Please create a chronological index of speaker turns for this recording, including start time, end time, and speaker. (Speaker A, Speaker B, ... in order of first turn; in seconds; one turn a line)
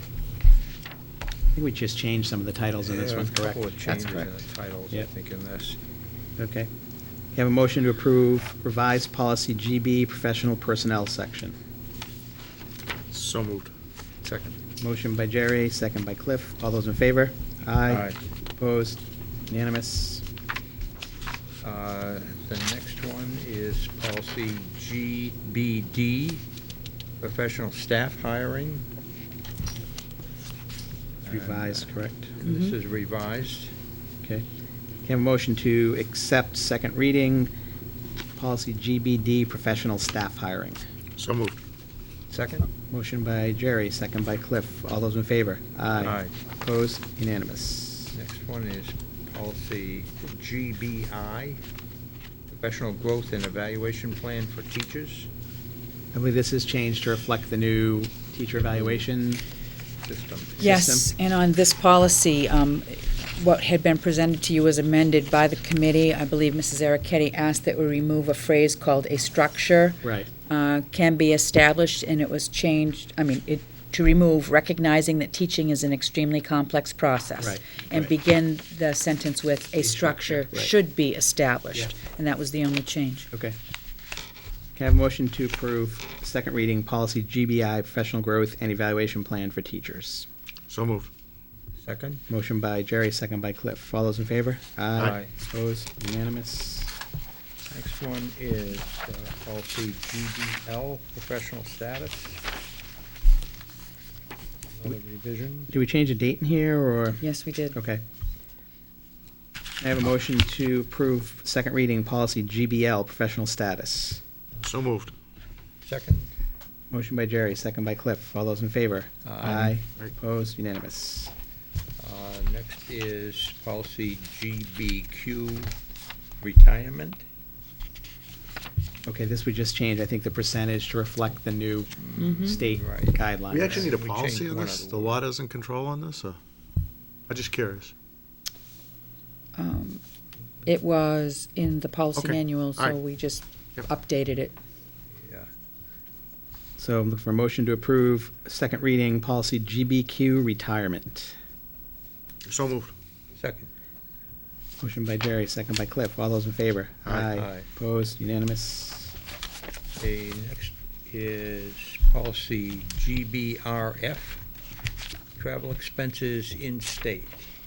Speaker A: 1.6-4.3
Speaker B: 2.8-5.8
Speaker A: 6.4-6.7
Speaker A: 7.3-11.6
Speaker C: 13.1-13.7
Speaker B: 14.2-14.6
Speaker A: 14.8-20.2
Speaker B: 17.9-18.2
Speaker B: 21.6-26.4
Speaker B: 27.2-28.8
Speaker B: 31.2-33.7
Speaker A: 31.3-32.4
Speaker D: 32.4-32.7
Speaker A: 35.0-37.5
Speaker A: 38.4-40.8
Speaker C: 41.2-41.6
Speaker B: 42.3-42.7
Speaker A: 42.9-48.1
Speaker B: 46.0-46.3
Speaker B: 48.1-51.6
Speaker B: 52.5-55.3
Speaker A: 56.1-59.4
Speaker B: 58.7-59.0
Speaker B: 60.1-60.8
Speaker A: 60.6-61.1
Speaker D: 60.6-83.3
Speaker A: 70.0-70.3
Speaker A: 77.4-78.1
Speaker A: 79.8-80.7
Speaker A: 84.8-90.3
Speaker C: 90.7-91.1
Speaker B: 91.8-92.2
Speaker A: 92.3-97.0
Speaker B: 95.0-95.3
Speaker B: 97.7-102.4
Speaker B: 104.8-105.7
Speaker A: 105.7-108.0
Speaker D: 107.2-107.8
Speaker A: 109.8-114.2
Speaker C: 114.6-115.1
Speaker B: 115.8-116.3
Speaker A: 116.9-121.3
Speaker B: 119.2-119.8
Speaker B: 122.0-125.7
Speaker B: 126.4-127.2
Speaker A: 129.1-133.9
Speaker B: 132.0-135.2
Speaker D: 132.2-132.6
Speaker C: 133.5-136.4
Speaker C: 137.3-137.9
Speaker D: 139.6-140.0
Speaker D: 140.7-144.5
Speaker C: 142.2-143.0
Speaker B: 145.2-145.5
Speaker A: 146.8-151.4
Speaker C: 152.4-152.9
Speaker B: 153.3-153.7
Speaker A: 154.8-159.2
Speaker C: 157.1-157.3
Speaker B: 157.3-157.7
Speaker B: 160.0-164.4
Speaker B: 165.4-167.4